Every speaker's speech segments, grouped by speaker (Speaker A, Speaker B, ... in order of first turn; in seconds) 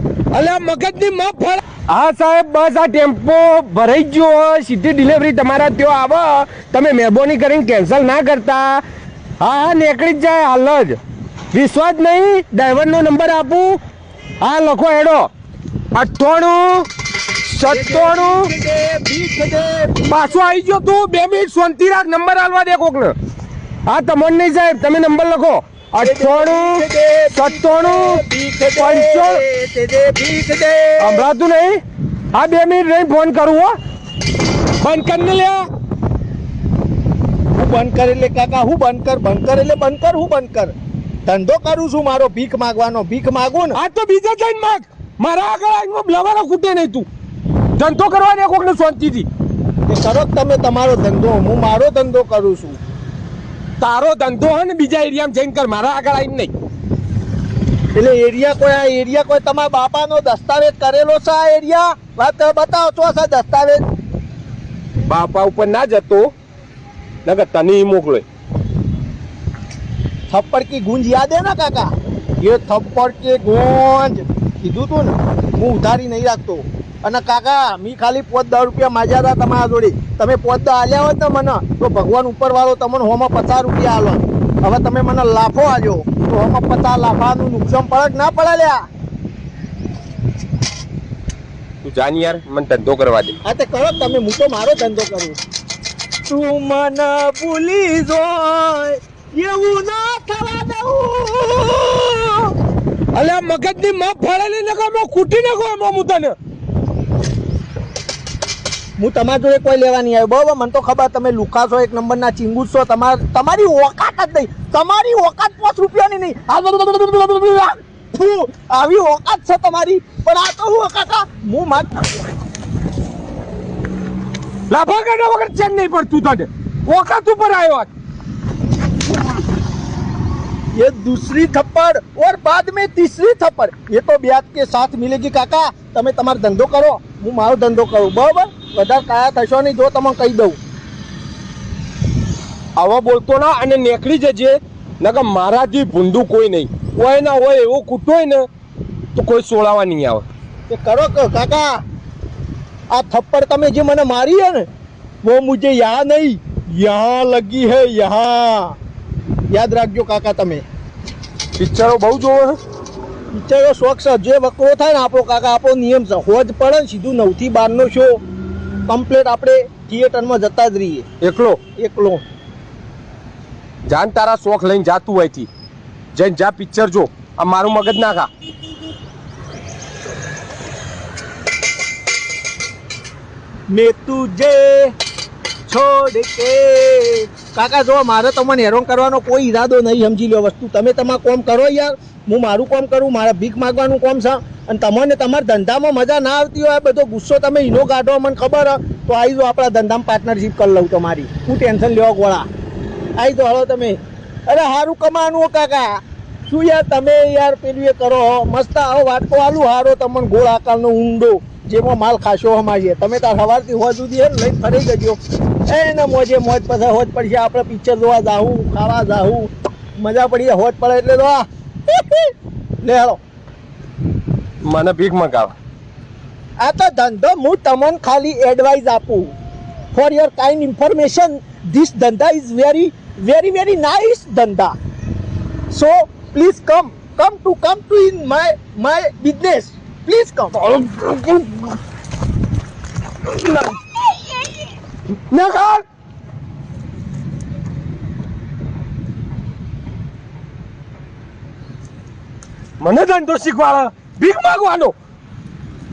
Speaker A: 0.3-8.8, 9.4-11.0, 11.5-13.8, 14.4-15.3, 15.9-16.9, 17.5-18.5, 20.1-23.1, 23.9-26.8, 27.3-28.2, 28.8-29.4, 31.0-31.8, 32.3-33.8, 34.8-35.7, 43.7-47.1, 47.8-49.3, 53.8-56.5, 65.1-66.3, 67.2-68.2, 91.8-93.4, 103.1-106.3, 124.7-127.9, 142.8-148.5, 149.2-150.2, 161.6-162.6, 171.2-171.6, 173.9-175.5, 176.1-178.3, 224.6-225.6, 240.5-241.8, 243.3-243.9, 245.3-245.8, 252.8-254.9
Speaker B: 17.7-20.3, 26.0-31.3, 37.5-40.7, 41.3-43.8, 49.9-52.8, 58.0-63.8, 70.3-88.8, 93.4-95.4, 96.3-102.5, 109.0-122.1, 130.8-140.6, 150.7-151.8, 152.9-154.7, 155.2-158.8, 159.5-160.6, 163.3-168.2, 168.9-171.1, 171.8-172.2, 183.7-184.9, 185.7-202.5, 203.2-223.2, 226.6-229.3, 229.9-234.8, 235.7-240.6